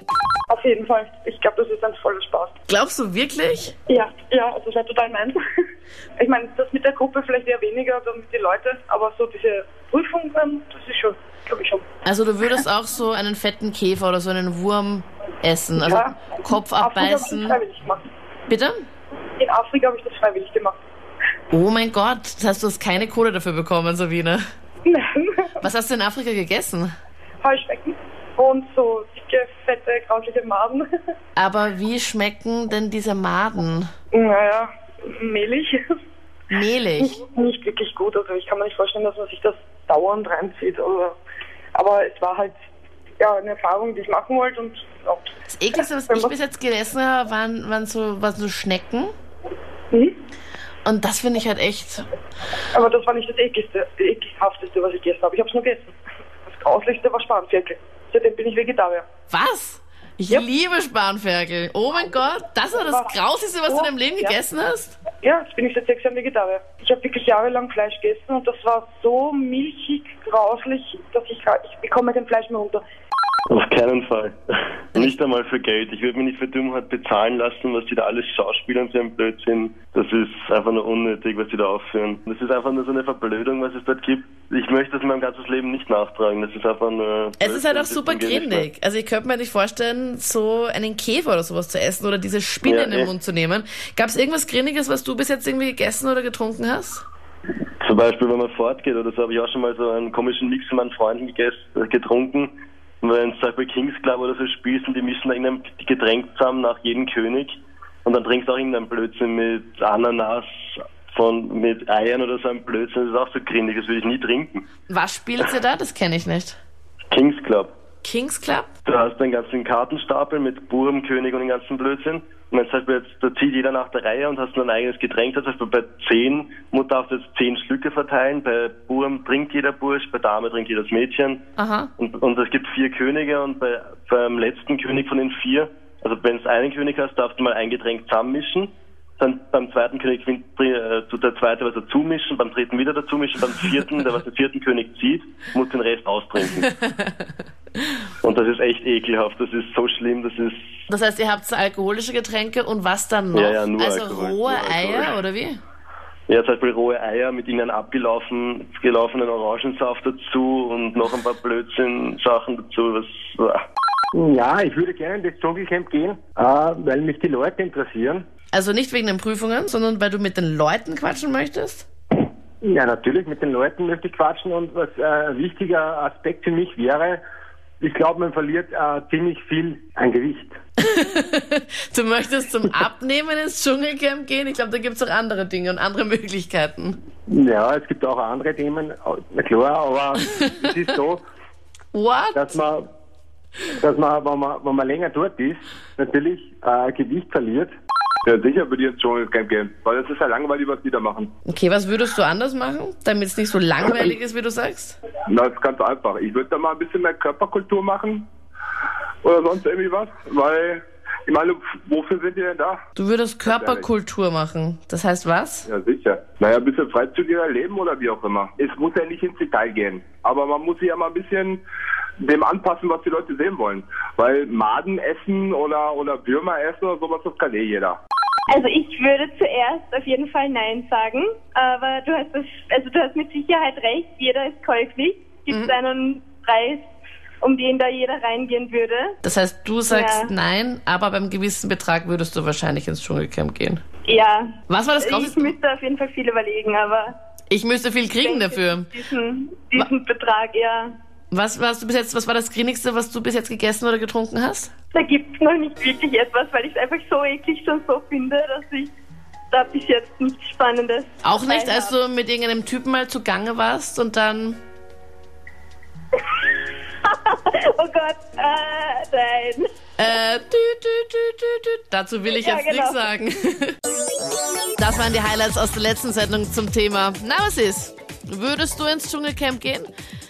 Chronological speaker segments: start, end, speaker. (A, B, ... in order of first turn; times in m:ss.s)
0:00.5-0:02.5 A
0:02.7-0:03.8 B
0:03.9-0:05.4 A
0:06.2-0:11.9 A
0:12.0-0:17.6 B
0:15.8-0:18.1 A
0:18.5-0:18.8 B
0:19.4-0:20.8 A
0:21.5-0:24.4 B
0:24.8-0:25.5 A
0:25.6-0:26.9 B
0:27.4-0:30.9 A
0:31.4-0:33.9 B
0:34.1-0:35.8 A
0:36.5-0:37.2 B
0:37.0-0:41.2 A
0:41.7-0:42.6 A
0:43.2-0:45.3 A
0:45.5-0:49.1 B
0:46.1-0:46.4 A
0:50.8-0:52.1 B
0:52.7-0:56.0 A
0:56.5-0:59.1 A
0:59.3-1:05.0 B
1:03.7-1:04.4 A
1:05.2-1:12.8 A
1:13.5-1:28.7 C
1:27.4-1:37.0 B
1:32.6-1:33.1 C
1:37.8-1:47.5 C
1:48.0-1:54.6 C
1:54.9-1:56.6 B
1:57.1-1:57.7 C
1:58.0-1:58.7 B
1:58.9-2:11.4 C
2:11.6-2:11.9 B
2:12.0-2:26.7 C
2:26.6-2:27.2 B
2:28.2-2:30.6 C
2:30.9-2:35.6 B
2:33.3-2:35.1 C
2:36.3-2:43.6 C
2:44.1-2:48.3 D
2:48.5-2:51.9 B
2:52.6-2:57.2 D
2:57.8-3:00.6 D
3:00.8-3:07.0 B
3:07.3-3:11.2 D
3:11.9-3:12.6 B
3:12.4-3:12.9 D
3:13.8-3:17.7 D
3:18.2-3:21.3 E
3:21.5-3:25.0 B
3:25.3-3:28.3 E
3:29.2-3:32.8 E
3:33.0-3:35.7 B
3:33.5-3:33.9 E
3:35.7-3:41.6 E
3:42.2-3:48.0 E
3:48.5-3:56.9 F
3:55.5-3:55.7 B
3:57.4-3:59.2 F
3:59.2-4:03.8 B
3:59.9-4:00.3 F
4:04.1-4:07.2 F
4:04.7-4:05.6 B
4:07.5-4:08.9 B
4:08.2-4:10.9 F
4:11.3-4:14.7 B
4:14.9-4:18.9 F
4:19.5-4:22.0 F
4:21.2-4:24.6 B
4:27.0-4:29.6 F
4:30.0-4:33.8 B
4:32.3-4:33.1 F
4:34.8-4:39.9 B